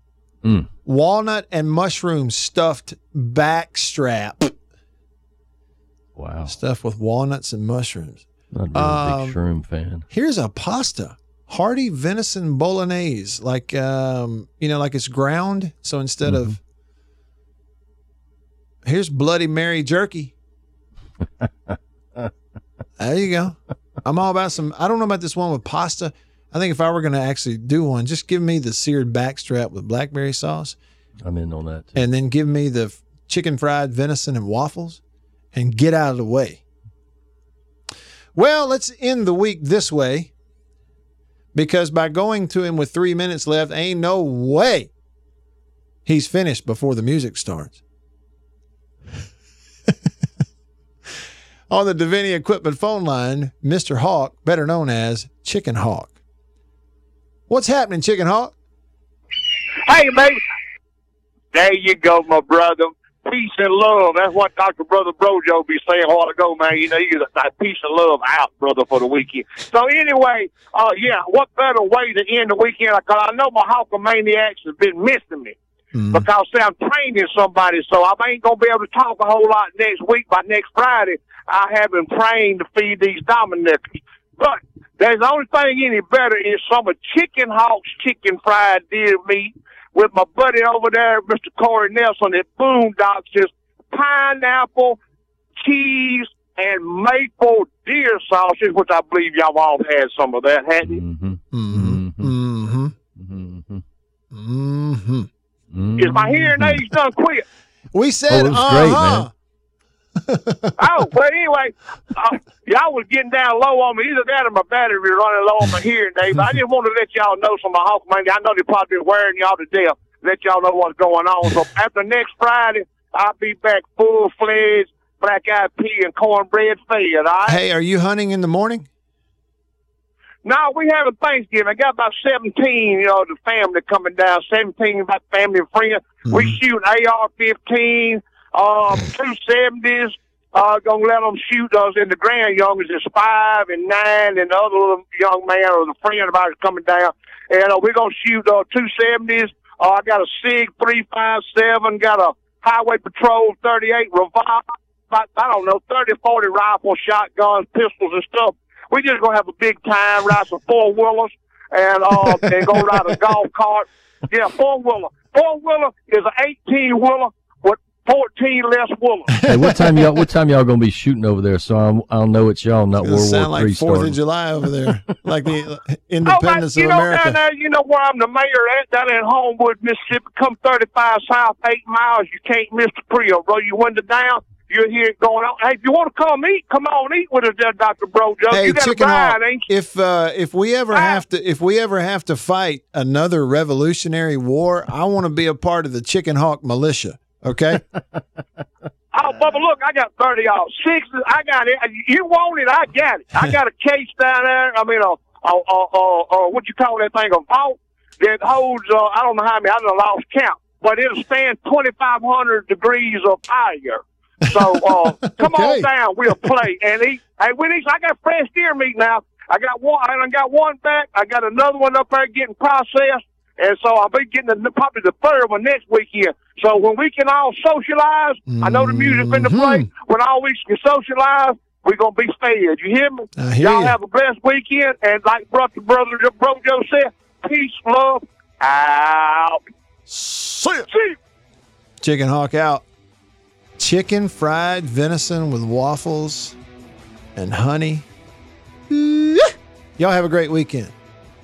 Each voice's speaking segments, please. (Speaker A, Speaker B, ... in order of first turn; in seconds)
Speaker A: 0.4-0.7, 6.2-6.5, 8.5-10.0, 16.2-16.5, 21.4-22.3, 31.2-31.9, 100.8-102.3, 103.2-103.8, 105.7-106.8, 108.3-109.3, 169.4-174.2
Speaker B: 0.8-4.5, 6.5-9.4, 10.1-16.6, 18.9-20.3, 23.0-30.8, 31.9-35.0, 35.5-36.6, 38.3-40.3, 41.5-44.9, 46.0-47.8, 51.7-56.2, 57.5-58.5, 75.9-76.2, 101.5-102.9, 104.3-105.3, 107.9-109.3, 110.3-110.8, 127.4-128.9, 136.3-136.6, 169.4-170.0, 173.0-177.4, 188.5-197.8, 214.6-215.9, 228.5-229.9, 233.4-233.9, 240.1-240.9, 242.0-242.8, 243.8-246.6, 247.3-248.1, 248.9-250.9
Speaker C: 59.9-60.4, 61.5-75.5, 76.1-83.8, 84.4-95.0, 95.6-101.0, 106.0-107.4, 110.8-127.6, 130.4-169.4, 176.3-189.7, 190.9-191.2, 199.1-239.6, 240.9-241.2